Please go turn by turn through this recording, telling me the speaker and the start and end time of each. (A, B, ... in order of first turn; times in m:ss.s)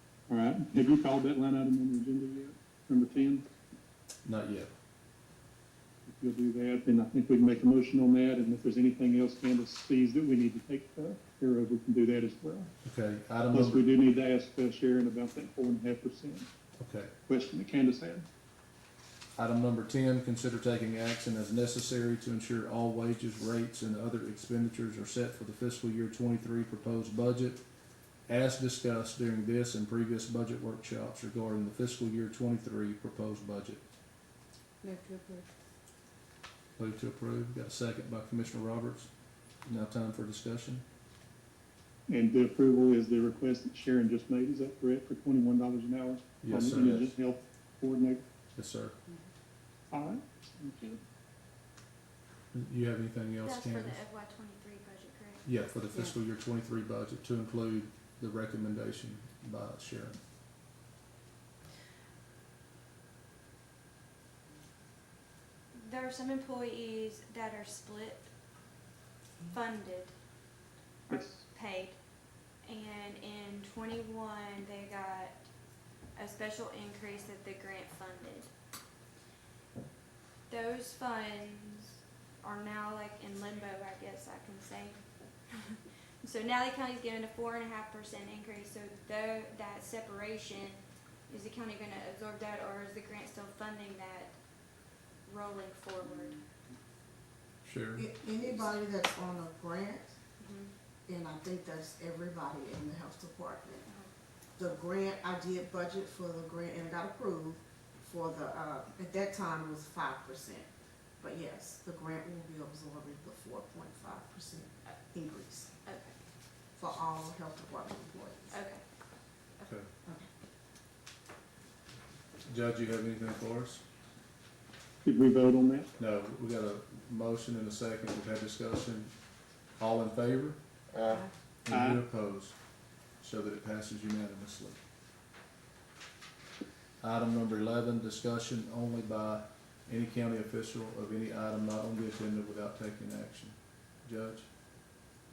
0:00.3-0:03.5 A
0:04.2-0:04.7 B
0:06.1-0:12.7 A
0:12.8-0:13.9 B
0:13.5-0:16.5 A
0:16.8-0:17.1 B
0:17.3-0:18.3 A
0:19.4-0:27.6 B
0:28.3-0:33.8 B
0:34.8-0:35.5 C
0:36.8-0:39.1 B
0:39.6-0:40.8 B
0:42.1-0:48.2 A
0:46.4-0:47.1 B
0:48.6-0:49.0 B
0:49.9-0:51.0 A
0:52.5-0:54.0 B
0:53.4-0:55.4 D
0:55.4-1:00.2 B
1:05.7-1:08.3 D
1:09.5-1:10.1 D
1:11.1-1:12.0 D
1:12.6-1:15.4 D
1:16.2-1:18.5 D
1:20.5-1:25.0 D
1:25.5-1:34.3 D
1:35.3-1:36.4 D
1:37.6-1:38.1 B
1:38.0-1:40.1 C
1:40.4-1:40.7 D
1:41.1-1:43.9 C
1:44.6-1:50.7 C
1:51.2-1:55.7 C
1:55.9-1:56.2 D
1:56.8-1:58.6 C
1:58.5-1:58.8 D
1:59.6-1:59.9 B
2:02.5-2:03.8 B
2:05.0-2:05.9 A
2:06.0-2:09.1 B
2:09.8-2:12.6 B
2:11.7-2:12.0 A
2:13.2-2:14.8 B
2:17.0-2:24.5 B